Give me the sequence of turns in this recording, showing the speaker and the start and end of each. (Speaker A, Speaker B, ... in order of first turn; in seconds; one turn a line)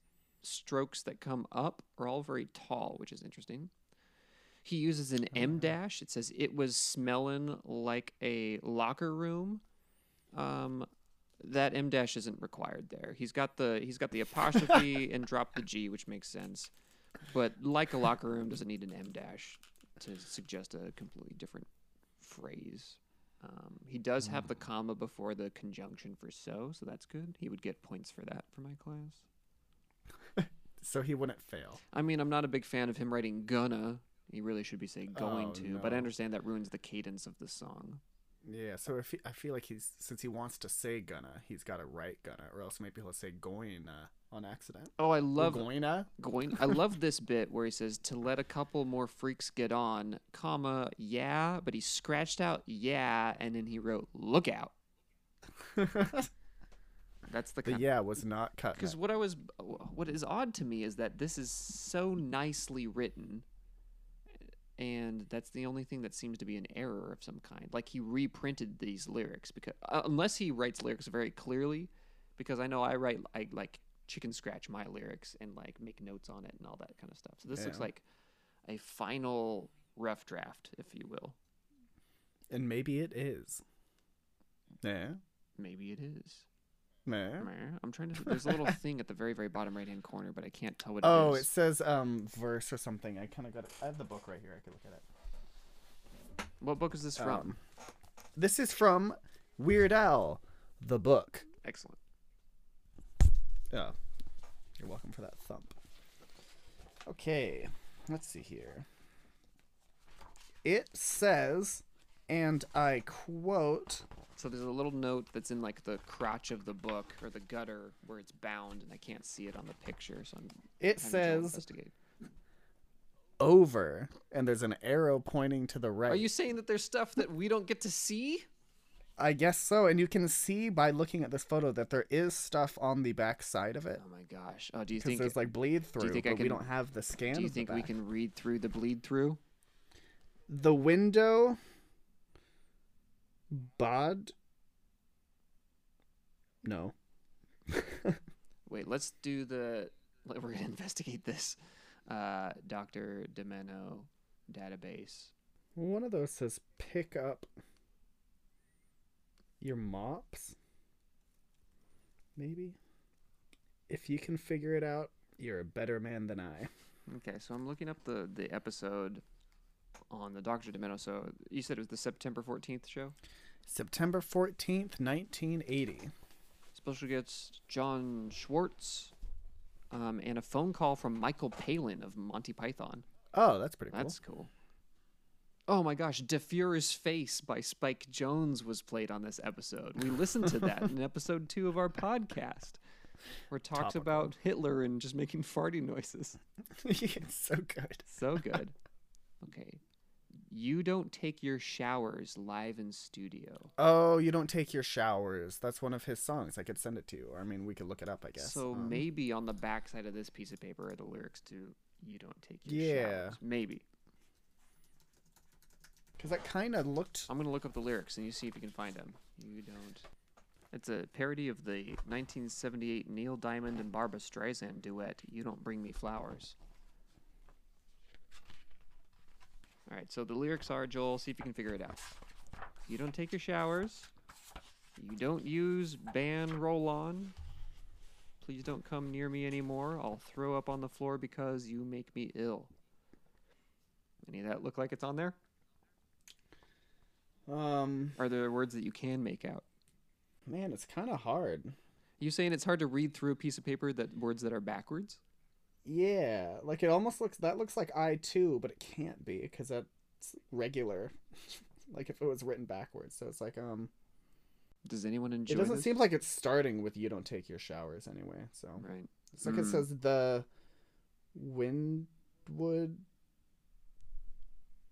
Speaker A: 0.4-3.7
Speaker A: 4.6-9.6
Speaker A: 10.3-10.9
Speaker A: 11.4-16.7
Speaker A: 17.3-21.7
Speaker A: 22.2-29.2
Speaker B: 30.4-31.8
Speaker A: 31.9-38.0
Speaker B: 35.1-36.1
Speaker B: 38.5-46.8
Speaker A: 45.0-54.8
Speaker B: 55.7-56.3
Speaker A: 57.3-57.9
Speaker B: 57.6-59.0
Speaker A: 58.8-63.5
Speaker A: 64.8-78.0
Speaker B: 77.5-77.9
Speaker A: 78.6-81.4
Speaker B: 82.5-83.6
Speaker B: 84.8-85.2
Speaker A: 85.6-86.5
Speaker B: 87.1-87.5
Speaker A: 87.4-91.5
Speaker B: 88.2-88.7
Speaker B: 91.0-95.0
Speaker A: 96.6-97.6
Speaker B: 97.2-97.6
Speaker B: 98.4-101.5
Speaker A: 101.6-102.0
Speaker B: 104.8-105.7
Speaker B: 107.1-108.9
Speaker B: 110.6-114.1
Speaker A: 114.4-121.9
Speaker B: 120.8-121.6
Speaker B: 123.4-126.3
Speaker A: 126.1-128.5
Speaker B: 129.2-134.0
Speaker A: 133.9-136.7
Speaker B: 135.0-137.9
Speaker A: 137.3-139.4
Speaker B: 140.5-141.6
Speaker B: 143.5-144.3
Speaker B: 146.6-146.9
Speaker B: 147.7-148.2
Speaker A: 148.7-155.3
Speaker B: 155.8-157.5
Speaker B: 159.6-160.6
Speaker B: 162.4-162.8
Speaker B: 163.9-166.7
Speaker A: 167.1-169.2
Speaker A: 170.1-173.2
Speaker B: 173.7-176.1
Speaker A: 176.8-179.1
Speaker A: 179.9-183.1
Speaker B: 183.3-184.2
Speaker A: 183.9-184.5
Speaker A: 185.7-192.8
Speaker A: 193.5-196.4
Speaker B: 193.7-194.3
Speaker B: 196.8-198.4
Speaker A: 198.1-198.8
Speaker A: 199.4-199.8
Speaker A: 200.5-203.7
Speaker B: 203.8-209.0
Speaker A: 208.4-213.8
Speaker B: 212.7-213.4
Speaker B: 216.2-217.3
Speaker A: 217.3-220.1
Speaker A: 220.7-226.6
Speaker A: 229.9-232.1
Speaker A: 232.9-234.1
Speaker A: 235.0-237.3
Speaker A: 238.4-242.7
Speaker A: 244.2-245.4
Speaker B: 247.5-248.2
Speaker A: 248.2-249.7
Speaker B: 250.5-251.8
Speaker A: 252.2-255.2
Speaker B: 255.8-263.9
Speaker A: 264.9-266.0
Speaker B: 265.5-270.5
Speaker A: 268.8-269.9
Speaker B: 271.3-273.0